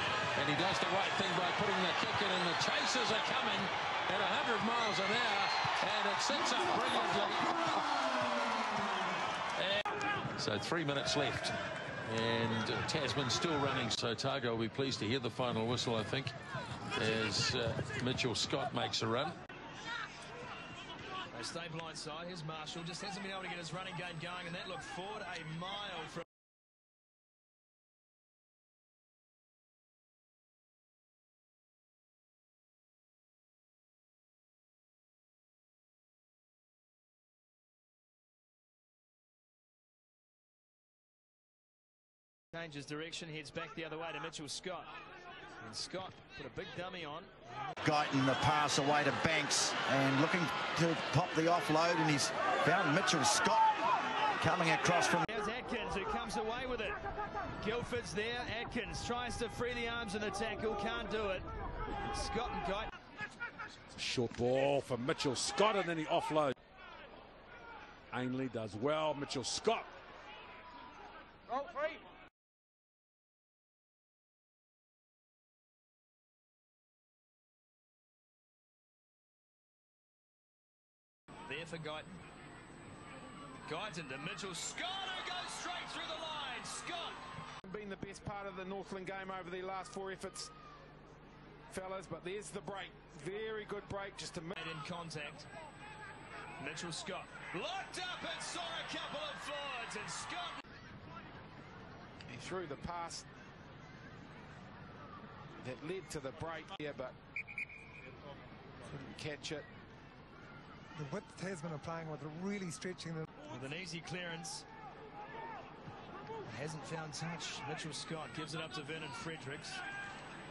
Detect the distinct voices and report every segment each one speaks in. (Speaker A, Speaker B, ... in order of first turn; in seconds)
Speaker A: 0.3-8.0, 9.6-9.8, 10.4-11.5, 12.1-16.3, 16.9-19.4
Speaker B: 21.3-26.2, 42.5-44.9, 45.6-47.3, 55.2-57.0, 57.6-61.5, 62.0-62.9, 81.5-82.2, 83.6-87.2, 94.6-95.5, 96.6-100.6, 113.5-114.7, 116.4-119.8
Speaker C: 47.8-53.7, 54.4-55.2
Speaker D: 64.0-66.5, 68.1-69.9
Speaker E: 87.6-90.5, 91.7-94.6, 102.3-103.3, 105.6-107.1, 108.9-109.7
Speaker F: 111.0-113.2